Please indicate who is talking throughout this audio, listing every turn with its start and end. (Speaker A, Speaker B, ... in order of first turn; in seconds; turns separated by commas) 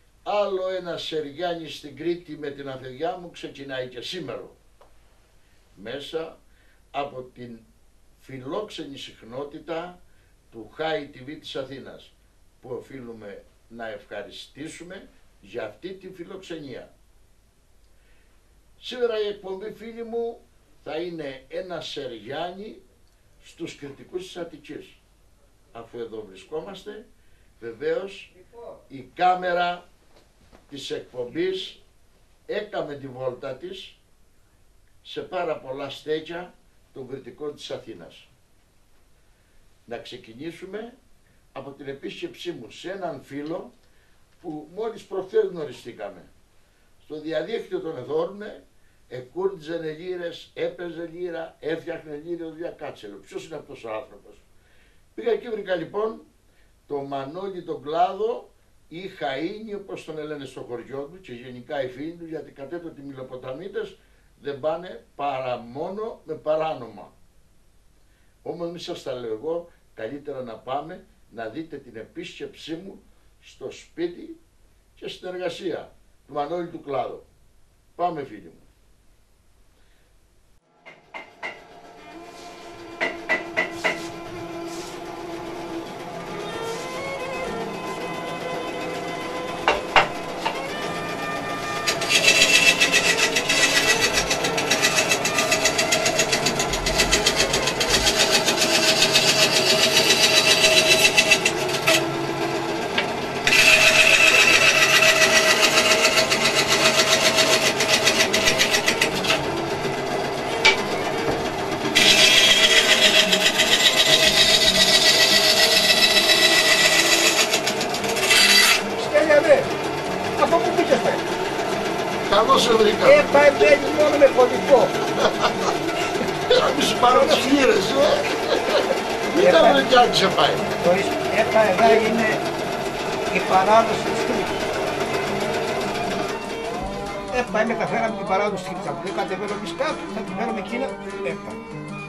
Speaker A: 0.2-4.5, Speaker A: 5.8-6.4, Speaker A: 6.9-7.6, Speaker A: 8.2-10.0, Speaker A: 10.5-16.9, Speaker A: 18.8-22.8, Speaker A: 23.4-25.0, Speaker A: 25.7-27.1, Speaker A: 27.6-28.3, Speaker A: 28.9-29.8, Speaker A: 30.7-31.8, Speaker A: 32.5-34.0, Speaker A: 35.0-38.3, Speaker A: 39.9-40.9, Speaker A: 41.5-43.7, Speaker A: 44.4-46.3, Speaker A: 47.0-54.4, Speaker A: 55.1-56.2, Speaker A: 56.9-67.1, Speaker A: 68.4-74.4, Speaker A: 75.0-77.2, Speaker A: 78.0-78.7, Speaker B: 119.0-119.7, Speaker B: 120.4-121.2, Speaker A: 122.3-123.3, Speaker B: 123.0-125.0, Speaker A: 126.5-130.7, Speaker B: 127.1-127.6, Speaker B: 129.4-129.8, Speaker B: 130.8-132.4, Speaker B: 133.3-134.6, Speaker B: 137.3-141.6